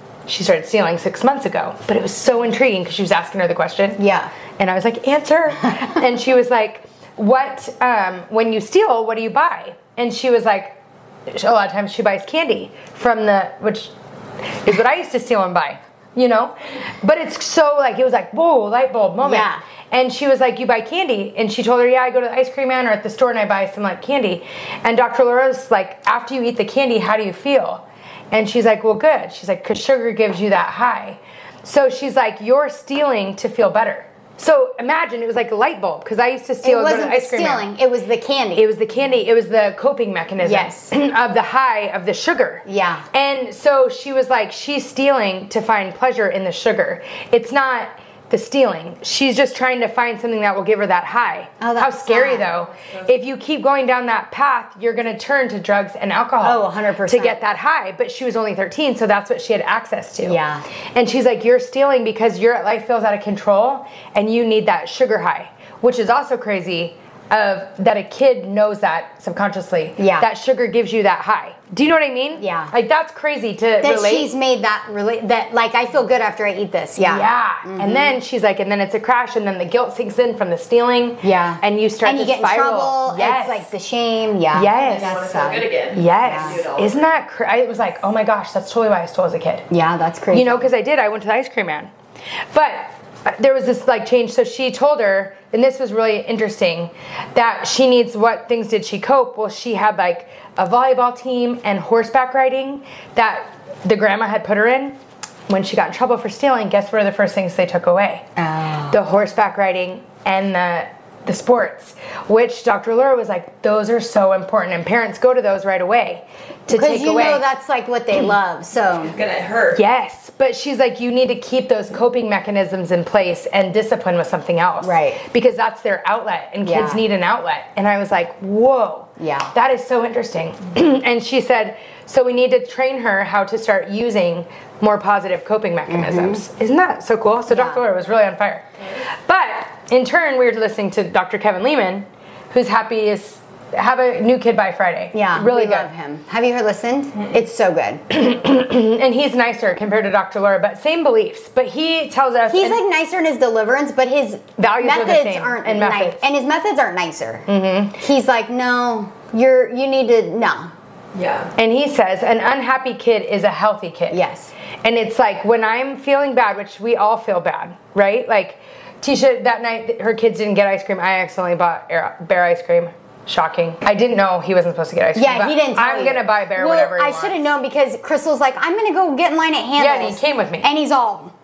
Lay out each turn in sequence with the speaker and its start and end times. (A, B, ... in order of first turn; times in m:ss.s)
0:00.3-0:04.0 A
0:04.0-0:04.3 B
0:04.6-0:10.7 A
0:11.3-0:13.9 A
0:14.5-0:37.7 A
0:19.2-0:19.6 B
0:36.6-0:38.6 B
0:38.5-1:00.4 A
0:40.4-0:40.9 B
0:42.6-0:43.0 B
0:51.6-0:52.5 B
0:56.4-0:57.4 B
1:00.2-1:00.6 B
1:00.9-1:14.3 A
1:10.0-1:10.3 B
1:12.4-1:12.7 B
1:13.8-1:18.2 B
1:17.0-1:23.7 A
1:21.2-1:25.7 B
1:24.5-1:25.2 A
1:24.8-1:27.1 C
1:25.9-1:29.7 A
1:26.2-1:26.6 B
1:29.7-1:30.7 B
1:30.3-1:31.9 A
1:32.5-1:45.0 A
1:45.5-1:48.2 A
1:48.4-1:49.0 B
1:48.9-1:57.4 A
1:56.7-1:59.2 B
1:59.0-1:59.8 C
1:59.7-2:18.6 A
2:04.8-2:05.2 B
2:06.6-2:07.0 B
2:09.2-2:09.5 B
2:15.9-2:16.4 B
2:17.5-2:17.8 B
2:19.2-2:25.9 A
2:25.1-2:28.0 B
2:28.1-2:32.8 A
2:32.5-2:40.7 B
2:34.6-2:36.2 A
2:37.5-2:38.0 A
2:41.1-2:41.5 C
2:41.6-2:44.2 A
2:44.1-2:44.5 B
2:44.8-2:57.4 A
2:55.1-3:01.3 B
2:59.8-3:00.7 A